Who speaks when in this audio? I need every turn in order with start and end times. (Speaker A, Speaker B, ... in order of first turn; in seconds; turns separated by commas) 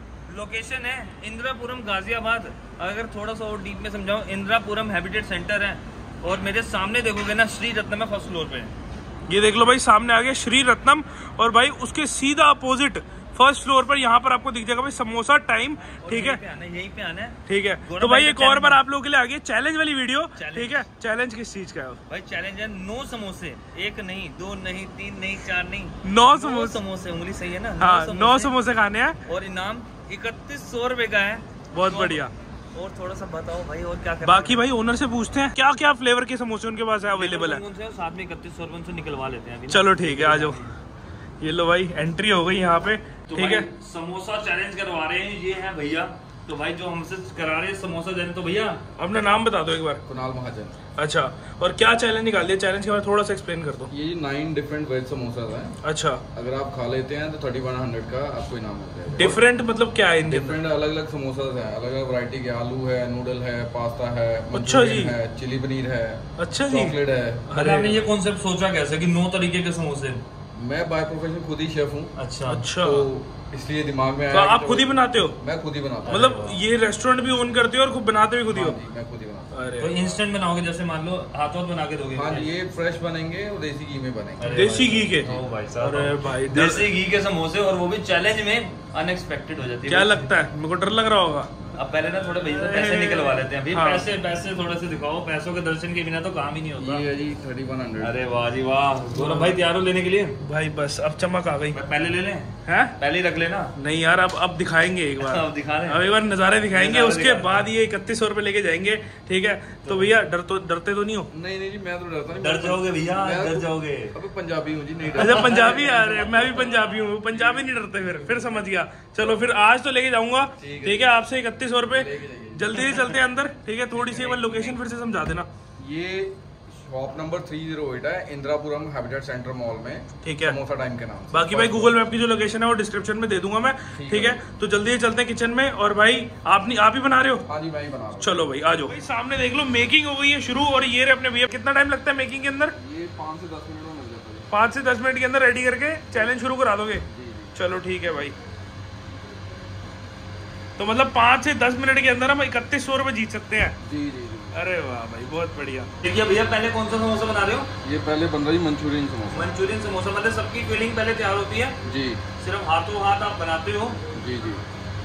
Speaker A: 0.3-8.7, Speaker B: 9.3-16.4, Speaker A: 15.9-18.8, Speaker B: 17.5-22.0, Speaker A: 20.4-20.9, Speaker A: 22.1-28.5, Speaker B: 26.0-26.8, Speaker B: 27.8-29.2, Speaker A: 29.2-34.6, Speaker B: 31.7-32.3, Speaker B: 34.2-37.6, Speaker A: 37.1-40.8, Speaker B: 39.7-40.7, Speaker B: 41.4-43.7, Speaker A: 43.3-48.8, Speaker B: 49.0-50.0, Speaker C: 50.0-50.8, Speaker B: 51.0-53.9, Speaker C: 53.9-55.8, Speaker B: 55.8-56.2, Speaker C: 56.3-59.4, Speaker B: 59.2-60.6, Speaker C: 60.2-67.5, Speaker B: 64.5-65.2, Speaker B: 66.4-68.1, Speaker A: 67.5-70.2, Speaker C: 70.5-72.1, Speaker A: 72.2-72.7, Speaker B: 72.5-73.1, Speaker C: 72.8-76.3, Speaker B: 74.3-75.4, Speaker A: 76.0-76.6, Speaker B: 76.1-78.8, Speaker C: 78.5-80.2, Speaker B: 79.5-80.0, Speaker A: 79.8-82.5, Speaker C: 82.2-84.5, Speaker A: 84.4-90.3, Speaker B: 84.5-86.9, Speaker B: 89.9-91.7, Speaker A: 91.8-97.0, Speaker B: 92.3-94.1, Speaker C: 96.8-98.1, Speaker A: 98.0-100.4, Speaker B: 99.2-99.6, Speaker B: 100.4-101.8, Speaker A: 101.7-103.7, Speaker B: 102.7-102.9, Speaker B: 103.8-111.3, Speaker A: 105.2-106.1, Speaker A: 106.7-107.7, Speaker A: 109.8-110.1, Speaker C: 111.3-119.4, Speaker A: 112.4-114.2, Speaker A: 115.1-115.7, Speaker B: 115.2-125.5, Speaker C: 120.6-121.1, Speaker C: 121.9-123.0, Speaker A: 123.9-124.8, Speaker C: 125.8-131.9, Speaker B: 130.2-130.6, Speaker B: 131.3-137.4, Speaker C: 133.9-134.4, Speaker C: 137.4-138.6, Speaker B: 138.2-142.7, Speaker C: 142.7-144.5, Speaker B: 144.5-148.4, Speaker C: 147.1-147.6, Speaker B: 150.8-153.8, Speaker C: 153.8-154.6, Speaker B: 154.5-155.9, Speaker A: 156.0-157.7, Speaker C: 157.8-159.6, Speaker A: 159.3-161.8, Speaker C: 161.8-162.2, Speaker A: 162.4-164.0, Speaker C: 164.1-164.7